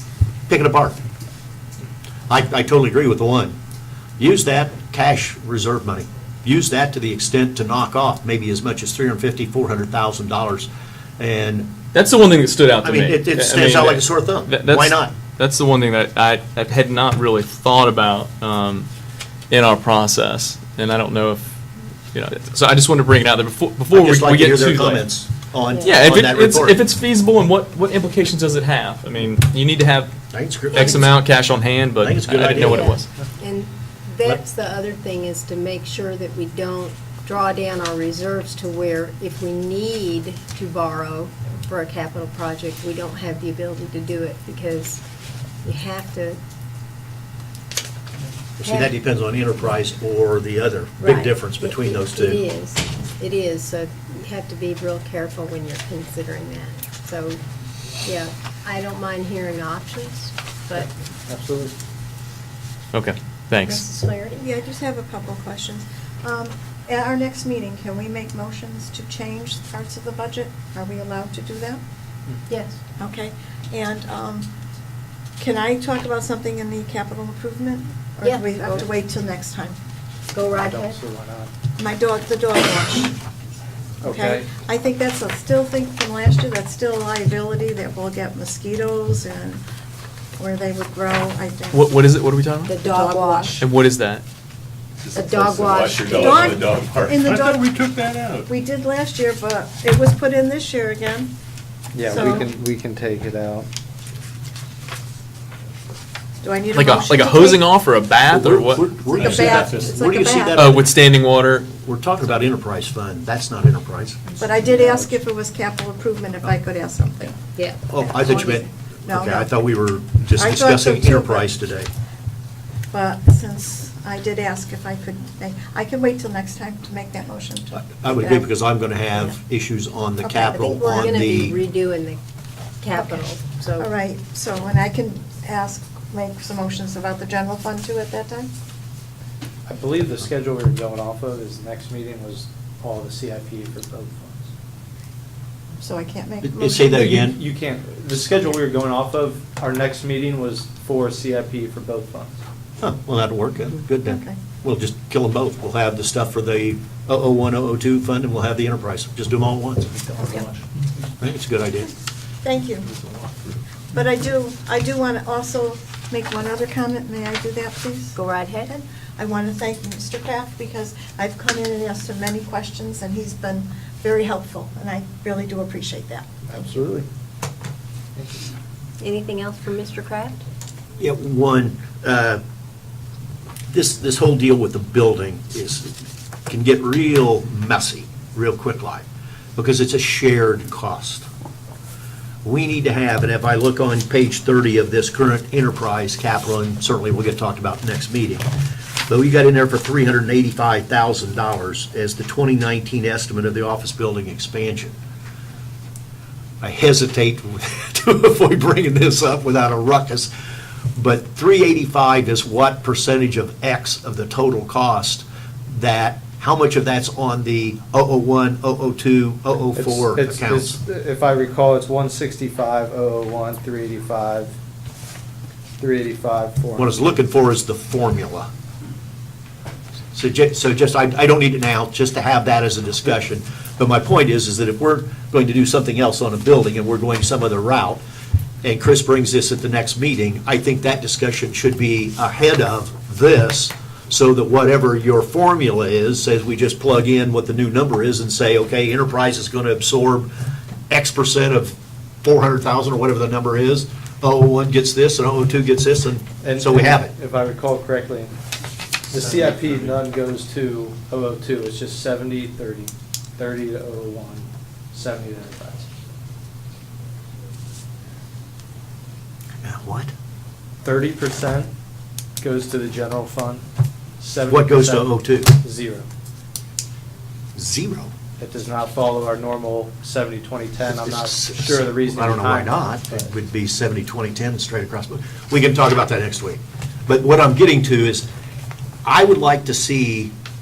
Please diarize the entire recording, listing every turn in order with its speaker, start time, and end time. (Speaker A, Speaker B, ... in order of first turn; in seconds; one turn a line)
Speaker A: 0.5-1.0
Speaker A: 2.3-3.5
Speaker A: 4.2-11.7
Speaker B: 11.9-18.9
Speaker A: 12.8-15.1
Speaker B: 19.5-21.5
Speaker B: 22.1-25.1
Speaker A: 23.9-26.8
Speaker C: 25.7-26.1
Speaker B: 25.8-30.1
Speaker A: 30.3-31.1
Speaker B: 30.7-33.1
Speaker A: 32.0-33.0
Speaker C: 32.6-45.0
Speaker C: 45.6-46.4
Speaker A: 48.6-52.4
Speaker C: 48.6-49.0
Speaker C: 51.0-57.4
Speaker C: 58.0-60.9
Speaker D: 61.3-61.8
Speaker B: 62.9-63.9
Speaker C: 63.6-64.4
Speaker E: 64.3-71.8
Speaker C: 72.5-72.8
Speaker E: 73.0-74.5
Speaker E: 75.4-79.8
Speaker C: 78.2-78.7
Speaker C: 80.3-81.0
Speaker D: 80.5-81.5
Speaker E: 81.8-83.2
Speaker D: 84.0-84.5
Speaker E: 84.0-89.6
Speaker E: 90.4-91.9
Speaker B: 91.7-92.8
Speaker C: 92.7-93.6
Speaker E: 92.8-93.6
Speaker B: 93.5-94.2
Speaker F: 95.0-98.5
Speaker C: 95.1-96.7
Speaker E: 96.1-97.7
Speaker E: 98.5-101.3
Speaker D: 101.9-103.7
Speaker E: 102.0-102.5
Speaker E: 106.4-107.7
Speaker B: 106.7-108.9
Speaker A: 108.3-111.0
Speaker E: 109.1-110.6
Speaker F: 109.1-109.9
Speaker B: 110.5-111.7
Speaker A: 111.8-114.2
Speaker E: 114.4-117.4
Speaker C: 117.6-117.9
Speaker A: 117.9-121.9
Speaker E: 118.0-119.5
Speaker E: 120.4-121.5
Speaker E: 122.9-128.5
Speaker A: 127.7-131.6
Speaker E: 130.2-131.1
Speaker C: 130.5-132.2
Speaker C: 132.8-133.9
Speaker E: 132.9-133.2
Speaker E: 133.8-138.5
Speaker D: 139.7-144.5
Speaker E: 145.8-147.2
Speaker A: 146.4-147.4
Speaker D: 147.1-152.4
Speaker A: 152.8-160.0
Speaker E: 154.1-154.4
Speaker E: 160.2-160.5
Speaker A: 161.2-161.9
Speaker E: 162.4-162.9
Speaker E: 163.9-168.2
Speaker C: 168.1-168.8
Speaker E: 168.7-176.6
Speaker D: 176.7-177.0
Speaker C: 179.0-180.4
Speaker A: 181.0-182.4
Speaker A: 183.7-185.9
Speaker A: 186.5-189.0
Speaker A: 189.6-191.2
Speaker A: 192.4-198.5
Speaker A: 199.1-204.9
Speaker A: 206.6-210.3
Speaker A: 210.9-220.8
Speaker D: 219.7-224.5
Speaker D: 225.8-227.2
Speaker A: 226.8-228.5
Speaker A: 230.1-238.0
Speaker A: 238.6-250.3
Speaker A: 250.9-257.1
Speaker D: 256.4-258.4
Speaker D: 259.1-265.9
Speaker A: 259.2-259.9
Speaker A: 269.6-270.1
Speaker D: 270.8-271.7
Speaker D: 272.4-273.6
Speaker D: 274.2-276.1
Speaker A: 274.5-275.6
Speaker A: 277.5-278.1
Speaker D: 278.4-283.3
Speaker A: 280.8-288.3
Speaker A: 289.0-290.3